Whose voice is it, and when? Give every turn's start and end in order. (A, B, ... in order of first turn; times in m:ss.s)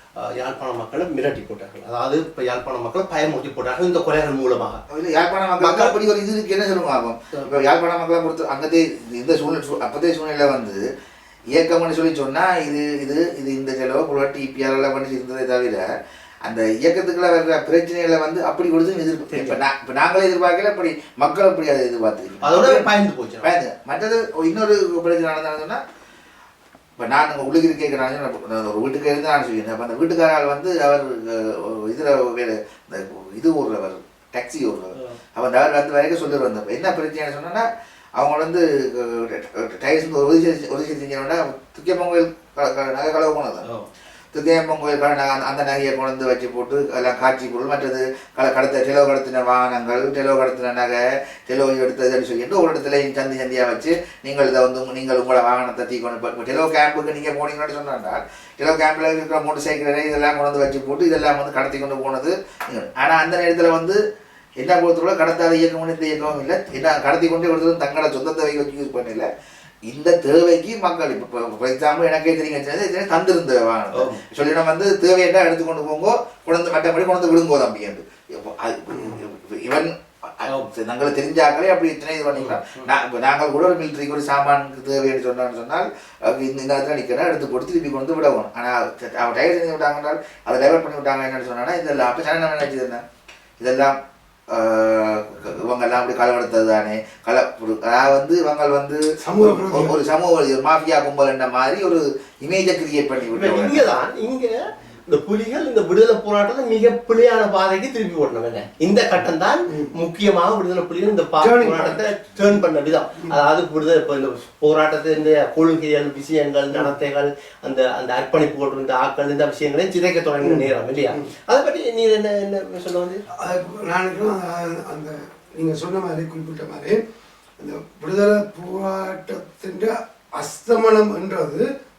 0:00.2-0:04.8 A
0:04.9-0:10.8 B
0:05.6-0:06.0 A
0:11.5-0:15.8 B
0:16.4-0:22.9 B
0:19.3-0:19.6 A
0:22.4-0:23.5 A
0:23.4-0:25.8 B
0:27.0-0:37.6 B
0:38.2-0:43.7 B
0:44.3-1:04.0 B
1:04.6-1:09.3 B
1:09.8-1:33.0 B
1:13.9-1:14.2 A
1:22.4-1:22.9 A
1:33.6-1:34.0 B
1:34.5-1:43.9 B
1:39.2-1:40.0 C
1:43.3-1:44.5 A
1:45.1-2:03.2 A
1:49.7-1:49.9 C
1:51.4-1:52.0 C
2:00.4-2:01.3 C
2:03.4-2:07.0 C
2:07.6-2:11.6 C